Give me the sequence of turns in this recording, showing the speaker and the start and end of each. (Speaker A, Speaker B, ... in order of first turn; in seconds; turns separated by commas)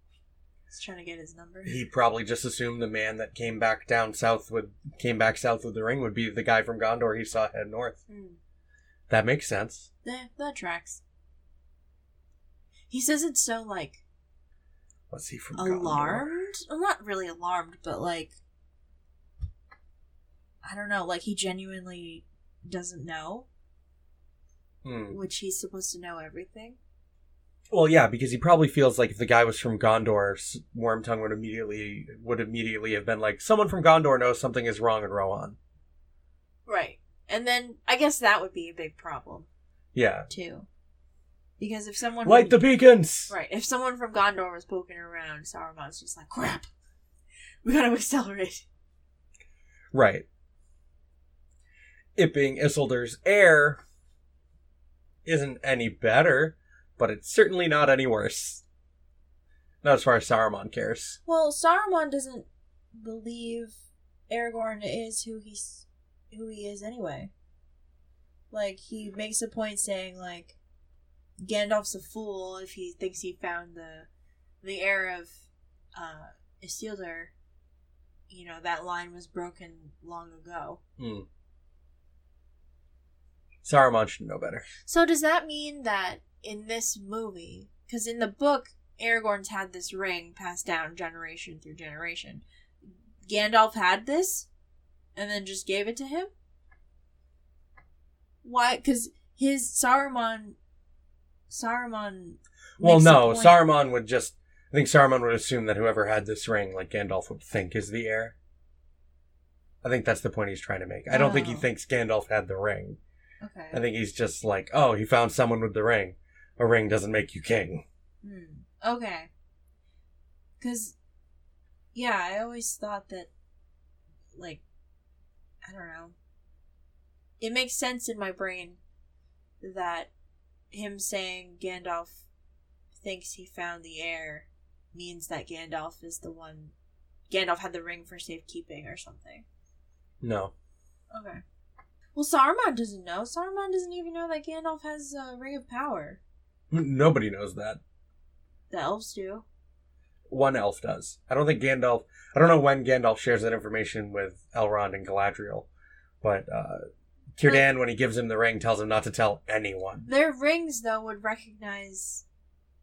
Speaker A: 0.7-1.8, Speaker B: 1.6-8.0, Speaker A: 8.1-8.4, Speaker B: 9.1-9.9, Speaker A: 10.0-11.0, Speaker A: 12.9-14.0, Speaker B: 15.1-16.3, Speaker A: 15.5-18.3, Speaker A: 20.6-23.5, Speaker B: 24.8-25.2, Speaker A: 25.1-26.8, Speaker B: 27.7-35.6, Speaker A: 36.6-39.5, Speaker B: 39.9-40.3, Speaker A: 40.3-40.7, Speaker A: 41.6-42.6, Speaker B: 42.2-43.3, Speaker A: 43.3-46.7, Speaker A: 47.6-48.6, Speaker B: 49.9-50.2, Speaker B: 52.1-53.8, Speaker B: 55.2-58.6, Speaker B: 59.8-61.2, Speaker A: 61.2-63.8, Speaker A: 64.3-67.3, Speaker A: 68.5-70.6, Speaker A: 71.4-74.1, Speaker A: 74.6-77.3, Speaker A: 78.3-80.8, Speaker B: 81.0-81.2, Speaker B: 83.6-84.7, Speaker A: 84.8-92.4, Speaker A: 93.3-94.5, Speaker A: 95.2-96.3, Speaker A: 98.4-100.6, Speaker A: 101.5-103.6, Speaker B: 102.8-108.3, Speaker B: 109.8-113.0, Speaker A: 111.1-111.7, Speaker A: 113.4-113.8, Speaker B: 113.7-117.8, Speaker A: 118.2-119.3, Speaker A: 120.6-121.0, Speaker A: 121.9-123.3, Speaker A: 124.3-124.6, Speaker A: 125.6-126.1, Speaker A: 127.4-128.8, Speaker A: 129.6-130.1, Speaker A: 130.7-132.2, Speaker A: 133.0-136.7, Speaker A: 137.3-139.4, Speaker B: 140.2-140.5, Speaker A: 141.1-141.4, Speaker A: 142.1-146.2, Speaker B: 146.7-147.8, Speaker A: 148.7-149.4, Speaker B: 150.3-155.7, Speaker B: 156.2-156.8, Speaker B: 157.3-160.1, Speaker A: 160.1-162.2